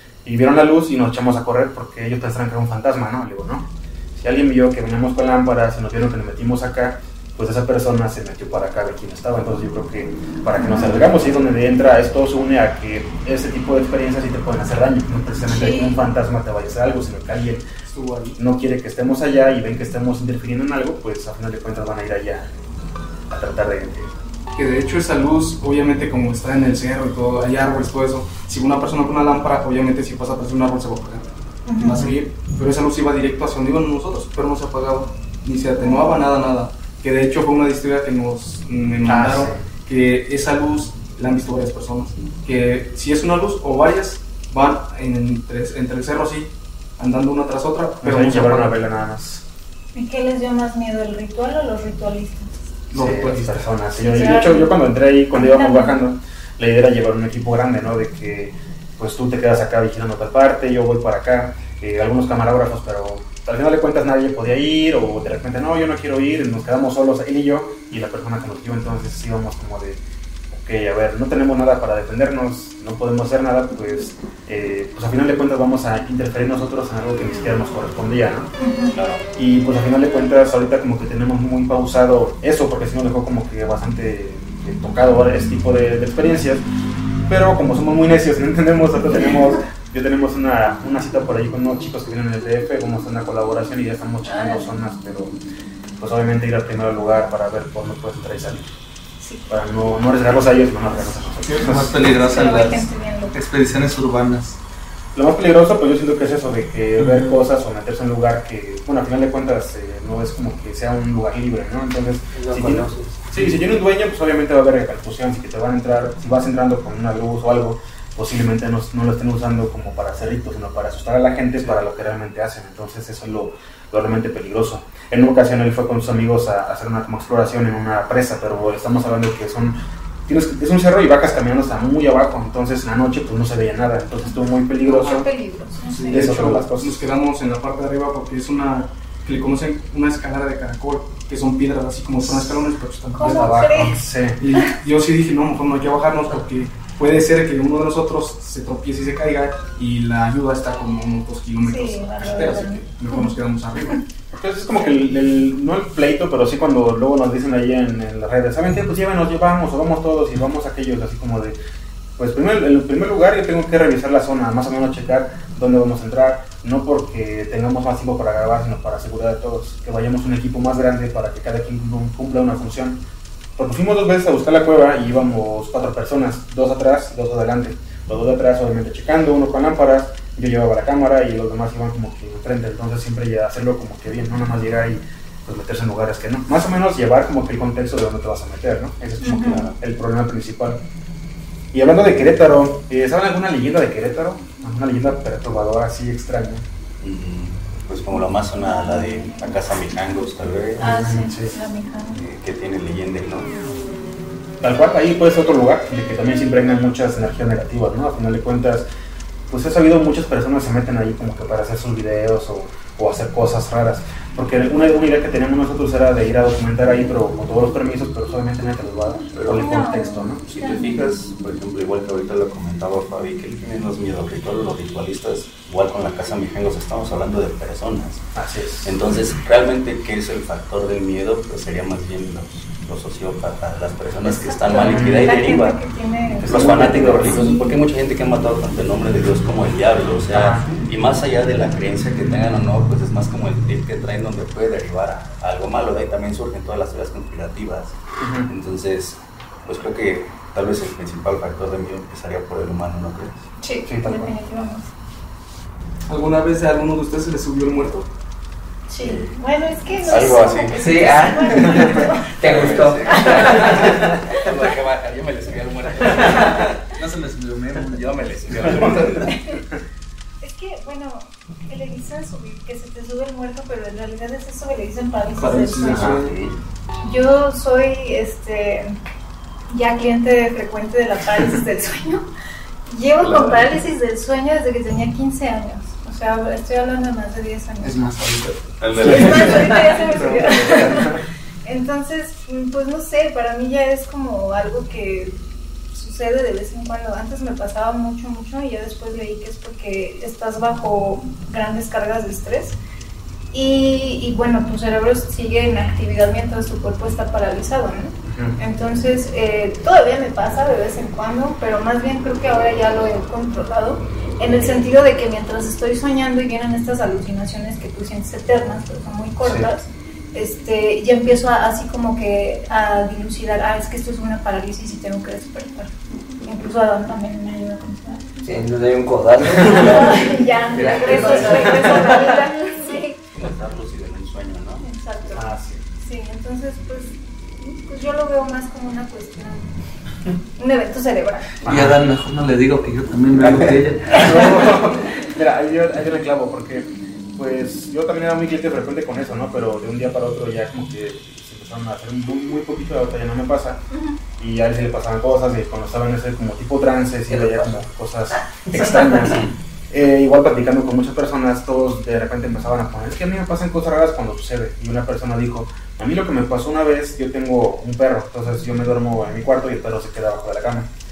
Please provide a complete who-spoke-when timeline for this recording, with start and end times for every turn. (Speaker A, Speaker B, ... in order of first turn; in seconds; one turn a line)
Speaker A: 0.2-17.6
Speaker B: 10.6-11.0
Speaker B: 15.5-16.0
Speaker C: 17.8-18.4
Speaker A: 18.4-22.5
Speaker A: 23.3-24.1
Speaker C: 24.6-48.7
Speaker B: 31.7-32.1
Speaker B: 35.6-36.3
Speaker A: 39.1-39.6
Speaker A: 48.0-49.4
Speaker B: 50.0-52.5
Speaker C: 52.9-54.4
Speaker A: 52.9-70.0
Speaker B: 54.0-54.8
Speaker B: 55.3-56.0
Speaker A: 70.5-78.5
Speaker B: 78.6-79.0
Speaker D: 78.9-79.3
Speaker A: 79.4-86.7
Speaker A: 87.3-95.4
Speaker B: 94.2-94.7
Speaker A: 96.0-98.7
Speaker B: 99.2-99.6
Speaker A: 99.5-102.1
Speaker E: 101.5-104.6
Speaker B: 102.0-103.4
Speaker A: 105.2-135.2
Speaker E: 107.0-107.4
Speaker F: 112.3-113.2
Speaker B: 134.8-136.4
Speaker C: 135.8-154.0
Speaker A: 136.1-137.1
Speaker B: 143.1-144.0
Speaker A: 143.2-144.4
Speaker B: 151.6-153.3
Speaker D: 152.2-152.7
Speaker A: 154.3-161.6
Speaker A: 162.2-173.0
Speaker A: 173.6-190.8
Speaker B: 189.2-189.7
Speaker D: 189.3-189.8
Speaker A: 191.7-196.7
Speaker D: 197.0-200.9
Speaker B: 198.6-199.4
Speaker A: 200.8-201.5
Speaker B: 200.8-202.2
Speaker D: 202.1-203.5
Speaker A: 204.6-208.9
Speaker A: 209.5-220.4
Speaker D: 219.3-219.7
Speaker B: 219.6-221.1
Speaker D: 220.5-228.3
Speaker A: 228.3-229.0
Speaker D: 228.8-235.8
Speaker B: 234.2-237.8
Speaker A: 234.8-235.5
Speaker A: 236.4-237.5
Speaker D: 236.4-253.5
Speaker A: 240.3-240.7
Speaker A: 248.2-248.5
Speaker B: 253.6-254.9
Speaker A: 253.9-254.3
Speaker C: 256.1-258.1
Speaker B: 258.9-262.5
Speaker D: 259.0-259.4
Speaker D: 259.9-266.8
Speaker F: 260.7-263.9
Speaker B: 263.1-264.0
Speaker F: 266.1-266.4
Speaker E: 267.0-269.3
Speaker D: 267.9-269.4
Speaker B: 269.3-269.6
Speaker B: 270.4-276.2
Speaker C: 275.4-276.4
Speaker A: 275.9-276.2
Speaker D: 276.0-276.5
Speaker B: 277.0-279.0
Speaker B: 279.7-282.2
Speaker B: 282.9-288.0
Speaker D: 283.2-283.7
Speaker E: 287.8-289.8
Speaker D: 288.8-289.9
Speaker B: 289.0-295.4
Speaker A: 290.1-291.2
Speaker B: 295.9-302.8
Speaker B: 303.5-325.9
Speaker A: 308.2-308.6
Speaker A: 319.4-319.7
Speaker B: 326.4-328.2
Speaker F: 328.4-332.4
Speaker B: 329.6-333.2
Speaker A: 330.7-331.9
Speaker D: 333.4-334.9
Speaker B: 334.8-339.7
Speaker A: 335.3-335.8
Speaker B: 340.6-341.6
Speaker E: 341.6-344.8
Speaker A: 341.6-342.0
Speaker D: 343.4-343.8
Speaker A: 344.1-353.8
Speaker B: 353.9-354.2
Speaker A: 354.4-370.9
Speaker F: 357.3-359.4